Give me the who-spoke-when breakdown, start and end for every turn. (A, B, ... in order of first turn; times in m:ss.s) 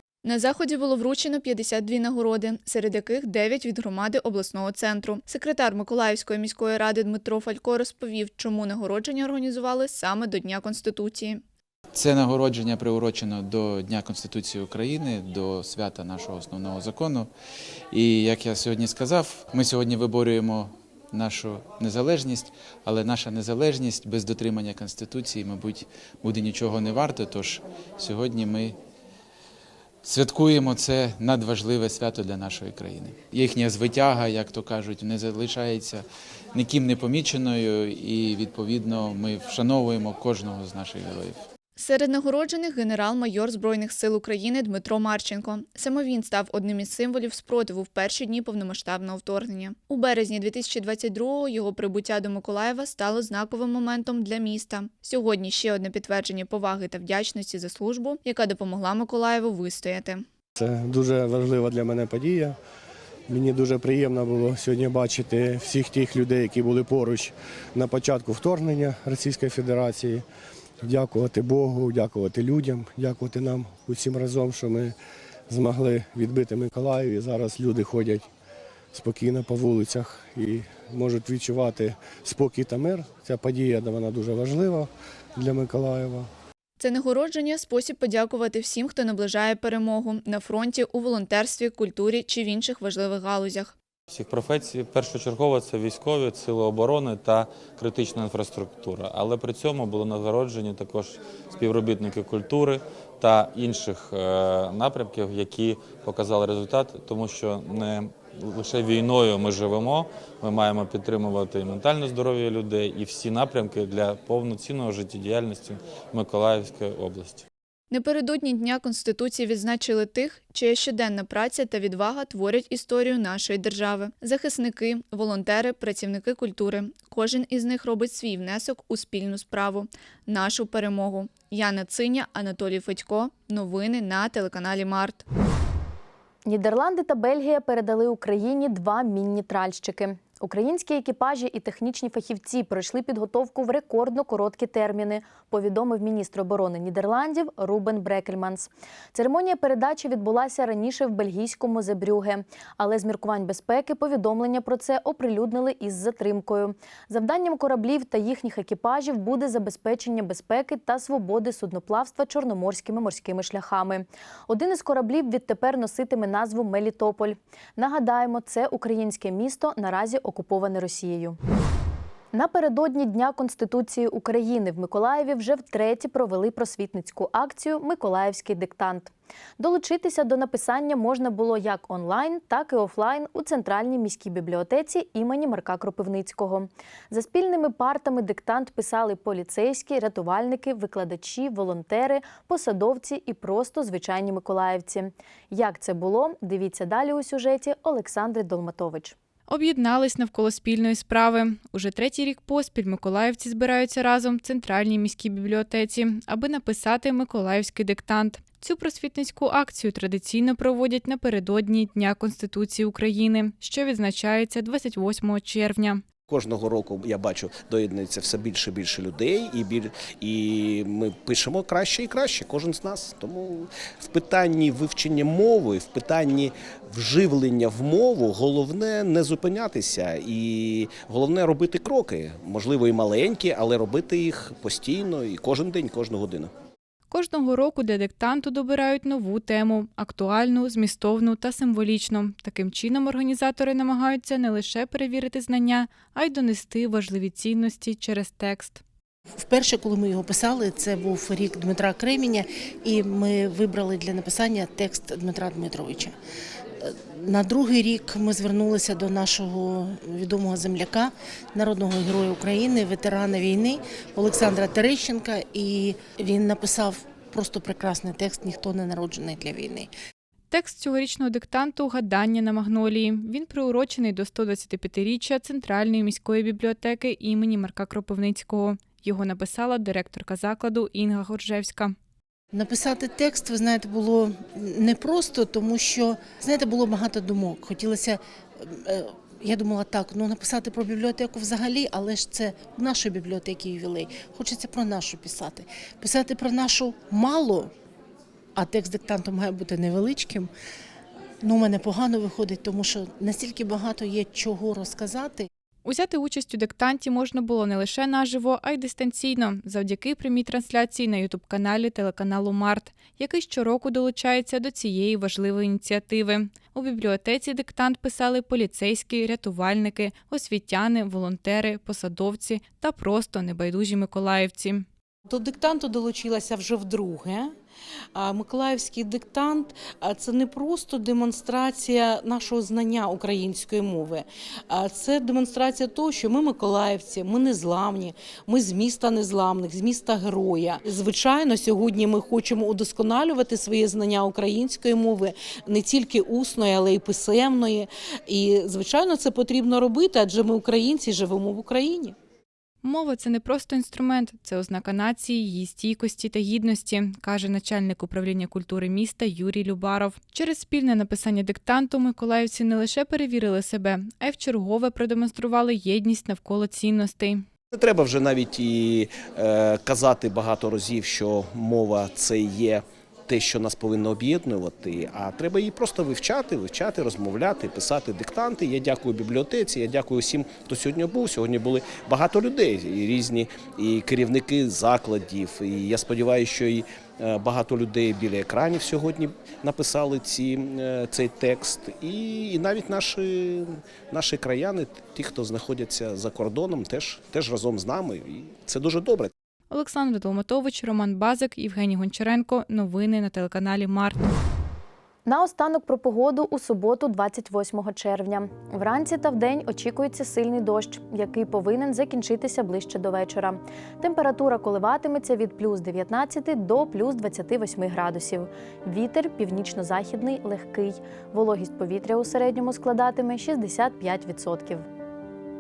0:00.2-0:11.4 A
0:11.9-0:17.3 B
0:17.9-0:28.8 B
0:30.0-0:41.4 B
0:41.8-1:00.2 A
1:00.6-1:02.6 C
1:03.3-1:10.2 C
1:10.8-1:15.0 C
1:15.5-1:18.2 C
1:18.9-1:26.3 C
1:26.8-1:33.7 A
1:34.1-1:57.4 D
1:57.9-2:15.2 A
2:16.4-2:51.4 E
2:52.3-3:19.1 E
3:19.5-3:36.0 F
3:36.3-3:56.5 G
3:57.1-4:08.8 F
4:09.3-4:16.2 H
4:16.8-4:29.9 H
4:30.5-4:41.9 F
4:42.5-4:57.7 H
4:58.6-5:00.5 H
5:01.4-5:05.5 H
5:05.8-5:24.8 F
5:25.2-5:27.5 I
5:28.1-5:52.2 I
5:52.8-6:07.4 F
6:07.7-6:39.3 G
6:39.7-6:44.3 F
6:45.2-7:04.8 E